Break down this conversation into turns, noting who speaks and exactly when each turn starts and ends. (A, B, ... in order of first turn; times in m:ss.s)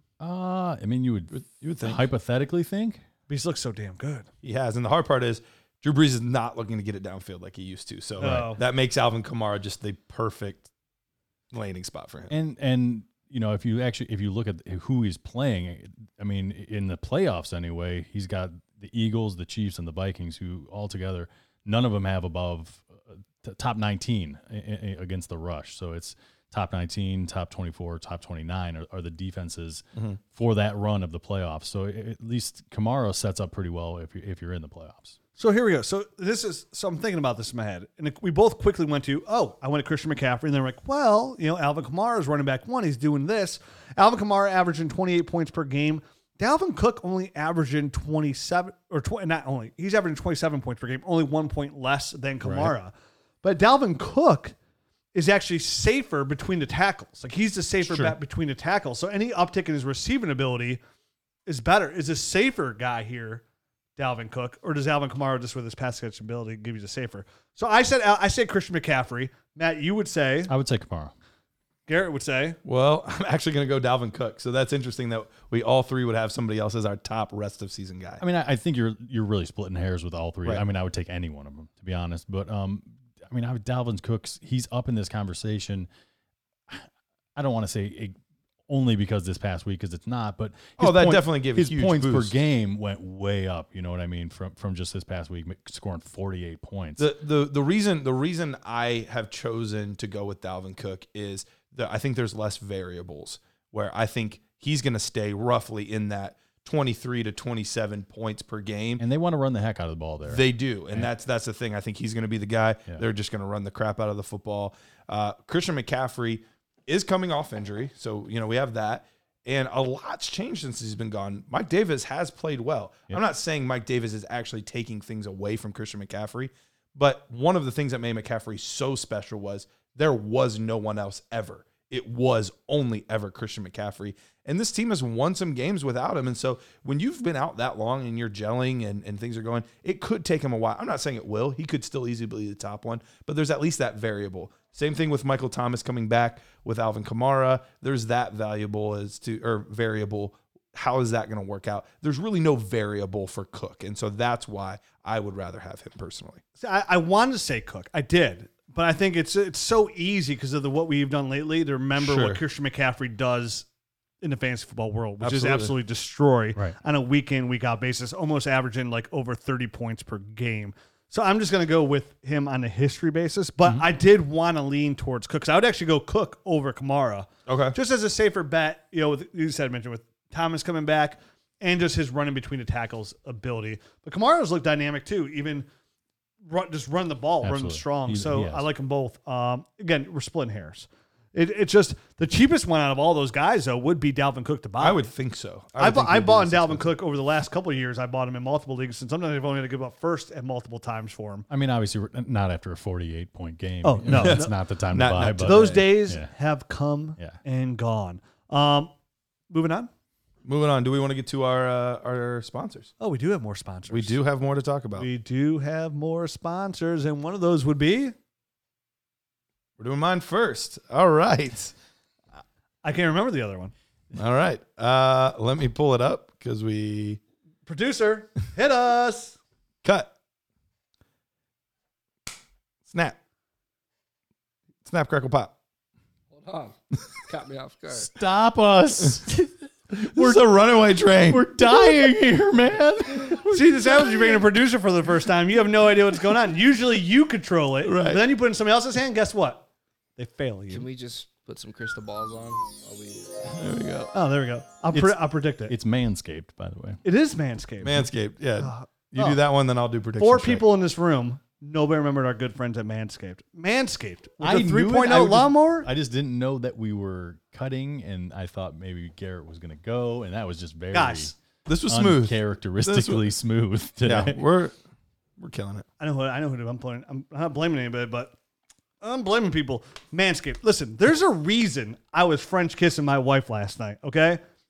0:00.2-0:03.0 A
0:01.3-0:02.0 B
0:03.3-0:04.3 C
0:04.4-0:10.7 B
0:08.2-0:08.6 C
0:11.5-0:12.3 B
0:12.3-0:35.2 A
0:35.4-0:54.5 C
0:52.4-0:52.7 A
0:55.1-1:00.8 C
0:57.9-0:58.1 A
1:01.4-1:03.4 C
1:04.0-1:10.5 C
1:10.5-1:11.1 A
1:11.9-1:12.6 C
1:12.6-1:18.2 B
1:18.2-1:25.9 A
1:26.7-1:28.2 A
1:28.7-1:37.1 A
1:30.8-1:32.3 B
1:37.0-1:49.0 B
1:49.0-1:51.1 A
1:50.3-2:36.4 B
2:36.6-2:43.6 C
2:42.0-2:42.4 B
2:44.2-3:05.7 C
2:45.2-2:45.7 B
2:57.5-2:57.8 B
3:06.4-3:15.1 C
3:07.4-3:08.7 A
3:14.8-3:16.9 B
3:15.8-3:21.5 C
3:21.5-3:26.3 A
3:23.8-3:24.5 C
3:24.1-3:25.9 B
3:25.4-3:28.9 C
3:29.5-3:29.9 C
3:30.4-3:32.9 B
3:33.0-3:34.2 C
3:33.9-3:35.1 B
3:35.0-3:38.1 C
3:39.8-3:41.7 B
3:42.8-3:43.7 C
3:44.1-3:47.2 B
3:47.6-3:49.4 C
3:49.8-3:50.1 B
3:52.9-3:53.2 B
3:54.8-3:55.5 B
3:56.3-3:56.8 D
3:57.3-3:58.1 D
3:57.9-4:00.4 A
4:00.0-4:01.5 B
4:01.3-4:03.5 A
4:03.2-4:04.4 B
4:03.5-4:09.6 C
4:07.8-4:08.2 B
4:10.2-4:10.8 C
4:10.7-4:13.5 D
4:13.5-4:14.1 B
4:14.1-4:15.7 C
4:14.9-4:17.0 A
4:17.0-4:18.1 C
4:17.8-4:20.6 B
4:18.6-4:19.4 C
4:20.2-4:25.9 C
4:24.4-4:31.3 A
4:30.9-4:31.3 C
4:31.6-4:33.3 B
4:31.9-4:34.4 A
4:34.0-4:34.7 B
4:35.4-4:35.8 B
4:36.0-4:38.3 C
4:39.0-4:44.4 C